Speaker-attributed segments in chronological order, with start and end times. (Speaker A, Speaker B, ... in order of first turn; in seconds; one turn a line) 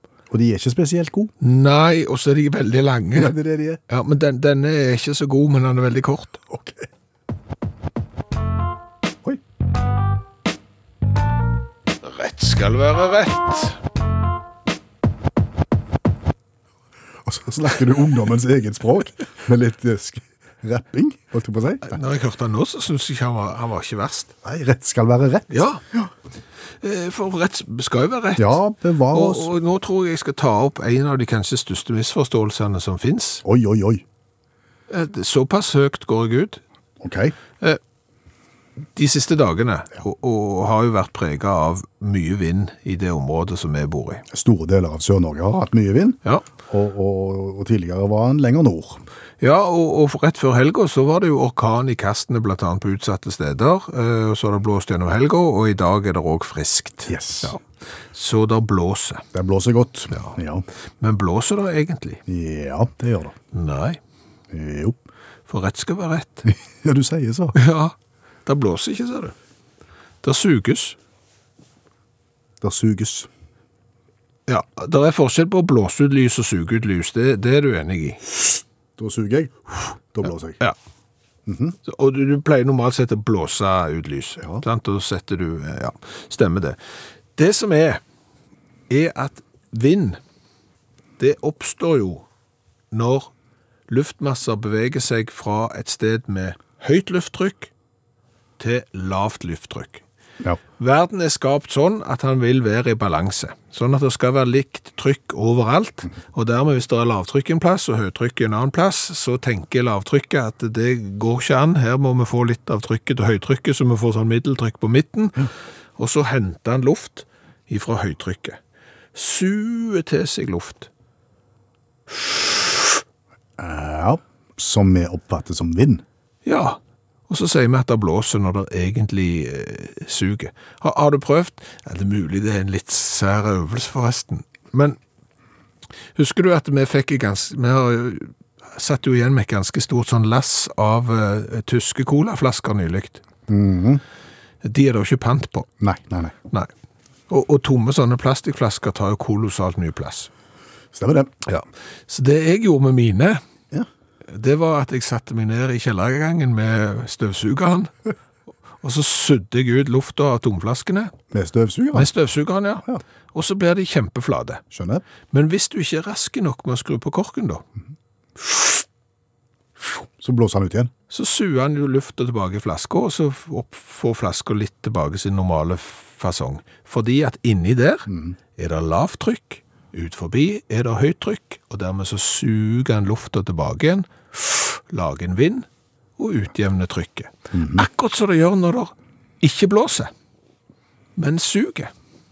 Speaker A: 0.3-1.3
Speaker B: 1.4-3.3
Speaker A: 3.1-3.8
Speaker B: 3.9-6.4
Speaker A: 6.5-6.9
Speaker B: 12.0-13.8
Speaker A: 17.2-22.0
Speaker B: 21.8-24.3
Speaker A: 24.4-26.1
Speaker B: 25.5-25.8
Speaker B: 26.8-28.6
Speaker A: 28.4-29.5
Speaker B: 29.1-33.4
Speaker A: 33.4-34.0
Speaker B: 34.9-36.6
Speaker A: 37.0-37.3
Speaker B: 38.9-44.2
Speaker A: 44.3-49.0
Speaker B: 49.4-59.2
Speaker A: 57.1-57.5
Speaker A: 59.3-60.6
Speaker B: 61.0-62.2
Speaker A: 62.3-63.3
Speaker B: 63.5-64.0
Speaker A: 64.5-65.0
Speaker B: 65.5-66.5
Speaker A: 66.5-67.5
Speaker B: 67.5-67.9
Speaker B: 68.5-69.3
Speaker B: 70.2-71.0
Speaker A: 72.6-73.3
Speaker B: 74.5-78.2
Speaker A: 79.0-80.6
Speaker A: 81.5-81.8
Speaker B: 81.8-86.8
Speaker B: 87.3-88.0
Speaker B: 88.9-90.2
Speaker B: 91.2-92.2
Speaker B: 92.9-93.3
Speaker B: 93.9-97.7
Speaker B: 98.6-100.0
Speaker B: 100.8-118.6
Speaker B: 119.1-120.9
Speaker B: 122.1-122.4
Speaker A: 123.6-126.0
Speaker B: 126.4-135.0
Speaker B: 136.1-143.2
Speaker A: 143.5-144.0
Speaker B: 144.6-145.7
Speaker A: 145.8-146.3
Speaker B: 147.3-150.3
Speaker A: 150.9-151.3
Speaker B: 151.4-153.4
Speaker B: 154.3-157.9
Speaker B: 158.8-161.1
Speaker A: 161.3-162.1
Speaker B: 161.9-164.6
Speaker A: 164.7-165.0
Speaker B: 165.3-167.6
Speaker A: 169.8-170.9
Speaker B: 171.1-185.7
Speaker A: 178.1-178.3
Speaker B: 186.2-190.1
Speaker A: 187.5-187.9
Speaker B: 191.2-191.9